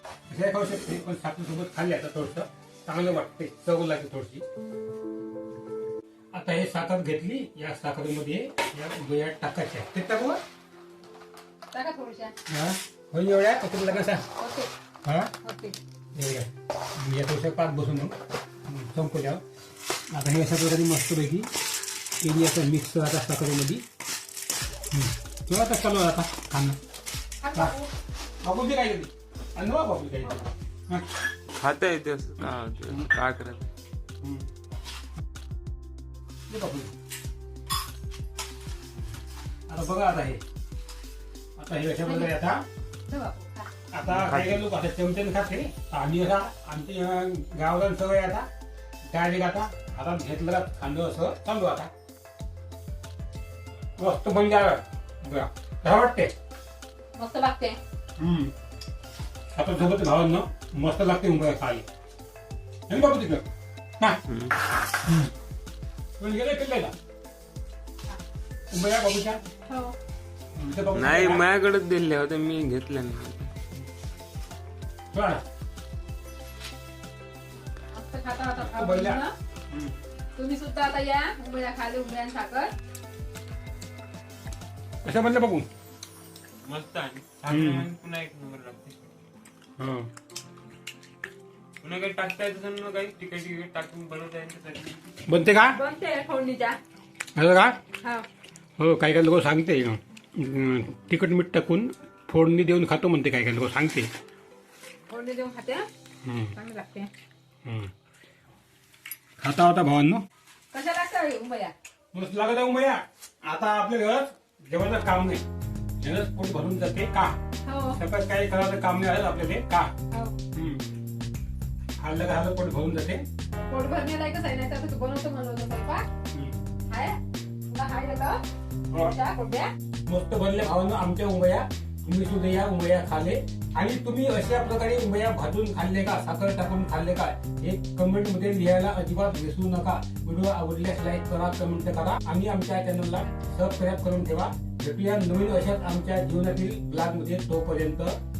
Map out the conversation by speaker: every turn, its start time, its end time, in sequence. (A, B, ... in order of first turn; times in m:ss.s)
0:00.3-0:04.4 A
0:06.3-0:10.4 A
0:11.7-0:12.3 B
0:12.5-0:14.2 A
0:14.4-0:14.7 B
0:15.0-0:15.3 A
0:15.4-0:15.8 B
0:16.1-0:19.4 A
0:20.1-0:21.5 A
0:22.2-0:23.8 A
0:24.9-0:26.8 A
0:27.4-0:27.9 B
0:27.5-0:27.8 A
0:28.4-0:31.2 A
0:31.5-0:33.7 C
0:34.2-0:34.5 A
0:36.5-0:36.9 A
0:39.7-0:40.4 A
0:41.6-0:42.6 A
0:42.0-0:42.3 B
0:43.1-0:43.7 B
0:43.9-0:48.5 A
0:49.1-0:51.9 A
0:54.0-0:56.3 A
0:57.1-0:57.8 B
0:58.2-0:58.5 A
0:59.5-1:01.8 A
1:02.9-1:03.5 A
1:04.0-1:04.3 A
1:04.3-1:04.6 C
1:04.8-1:05.3 A
1:06.2-1:06.9 A
1:08.7-1:09.4 A
1:09.7-1:10.0 B
1:10.5-1:11.5 A
1:10.9-1:13.5 C
1:15.1-1:15.4 A
1:17.9-1:19.3 B
1:18.6-1:19.9 A
1:20.3-1:22.7 B
1:25.0-1:25.7 A
1:26.6-1:29.0 C
1:27.5-1:27.9 A
1:29.8-1:30.1 A
1:31.8-1:35.2 C
1:35.2-1:35.8 A
1:35.7-1:36.8 B
1:37.3-1:37.8 A
1:38.0-1:38.3 B
1:38.8-1:44.1 A
1:45.1-1:45.9 B
1:46.2-1:46.6 A
1:46.5-1:47.1 B
1:47.6-1:47.9 A
1:49.4-1:50.2 A
1:50.7-1:51.7 B
1:52.1-1:55.4 A
1:56.0-1:57.4 A
1:57.6-1:58.0 B
1:58.0-1:59.9 A
2:00.1-2:00.4 B
2:00.5-2:00.9 A
2:02.0-2:03.2 A
2:03.6-2:06.1 B
2:06.3-2:06.6 A
2:06.9-2:09.7 B
2:08.9-2:09.1 A
2:10.0-2:28.2 A